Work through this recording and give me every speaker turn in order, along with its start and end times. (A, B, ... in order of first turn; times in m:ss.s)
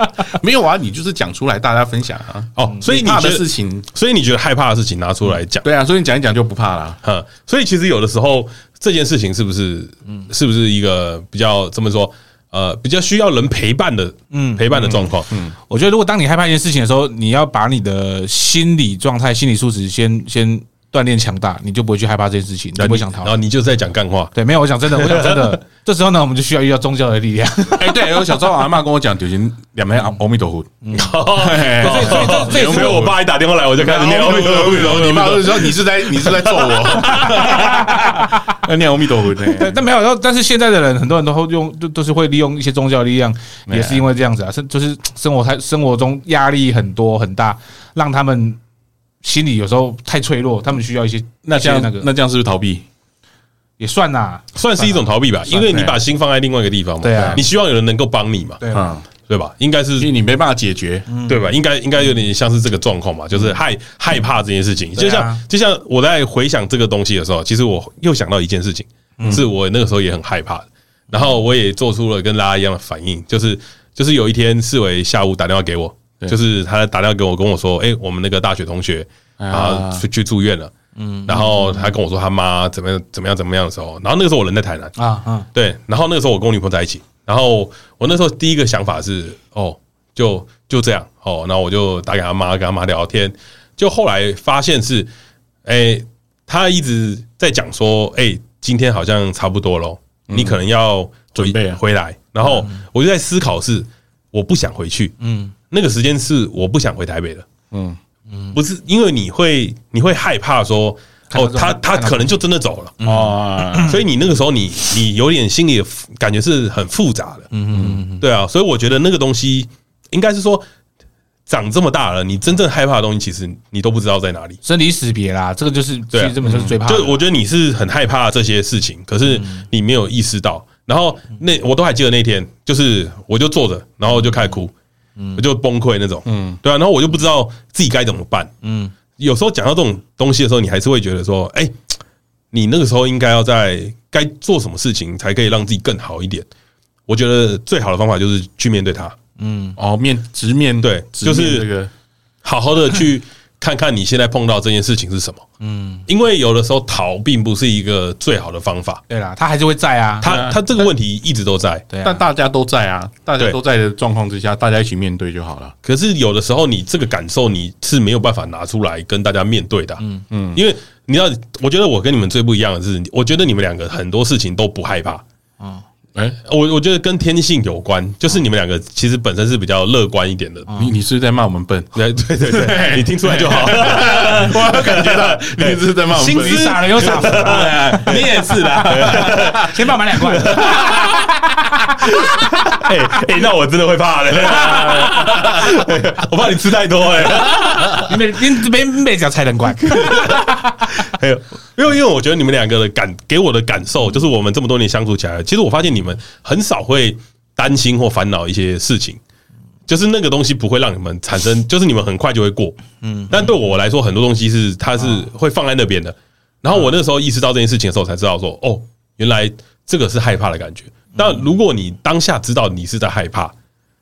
0:00.3-0:03.9 A
0:02.6-0:05.6 B
0:05.6-0:07.0 A
0:07.0-0:15.3 B
0:14.3-0:14.9 C
0:15.3-0:15.5 A
0:15.7-0:23.3 C
0:22.8-0:24.3 B
0:24.3-0:28.2 C
0:24.9-0:25.6 B
0:27.7-0:30.7 A
0:30.8-0:33.1 C
0:30.9-0:37.7 B
0:31.3-0:33.2 A
0:33.7-0:39.8 A
0:37.1-0:38.5 C
0:39.4-0:48.6 C
0:43.7-0:44.0 A
0:49.2-0:52.1 C
0:51.4-0:52.8 A
0:53.8-0:55.0 C
0:54.5-0:58.6 B
0:55.5-0:56.0 A
0:57.0-0:57.4 C
0:57.1-0:57.4 A
0:58.6-0:58.9 C
0:58.7-0:59.0 A
0:59.3-1:00.1 B
1:00.0-1:01.1 A
1:01.1-1:01.5 C
1:01.2-1:20.7 B
1:05.0-1:05.4 C
1:19.4-1:20.0 A
1:21.0-1:21.8 C
1:21.3-1:24.9 B
1:25.0-1:25.4 C
1:25.5-1:35.1 B
1:35.6-1:45.2 B
1:40.3-1:40.6 A
1:41.3-1:41.8 A
1:45.2-1:45.5 C
1:45.7-1:47.5 B
1:47.7-1:48.0 A
1:48.5-1:53.0 B
1:51.3-1:52.4 C
1:53.0-1:53.9 C
1:53.0-1:54.0 A
1:53.8-1:57.5 B
1:57.5-1:58.2 C
1:57.7-1:58.0 A
1:58.1-2:00.6 B
2:01.5-2:04.6 B
2:04.6-2:07.2 C
2:06.1-2:14.7 B
2:06.4-2:06.8 A
2:15.4-2:18.5 B
2:16.2-2:16.6 A
2:18.6-2:18.9 C
2:19.2-2:21.8 B
2:22.5-2:26.4 B
2:27.1-2:29.2 B
2:29.4-2:29.8 C
2:29.8-2:31.9 A
2:30.8-2:31.7 B
2:32.4-2:35.4 B
2:35.6-2:36.0 C
2:36.1-2:39.0 B
2:39.1-2:40.5 C
2:40.2-2:41.8 B
2:40.2-2:40.8 A
2:41.9-2:42.2 C
2:42.0-2:45.7 A
2:45.8-2:55.2 B
2:50.3-2:50.6 A
2:56.4-3:00.7 B
3:00.7-3:09.8 A
3:01.9-3:09.7 B
3:06.1-3:08.2 C
3:09.0-3:12.1 C
3:10.3-3:11.3 B
3:12.1-3:18.1 B
3:14.6-3:15.5 A
3:17.9-3:20.6 C
3:20.0-3:29.2 B
3:29.9-3:43.5 B
3:33.0-3:33.3 C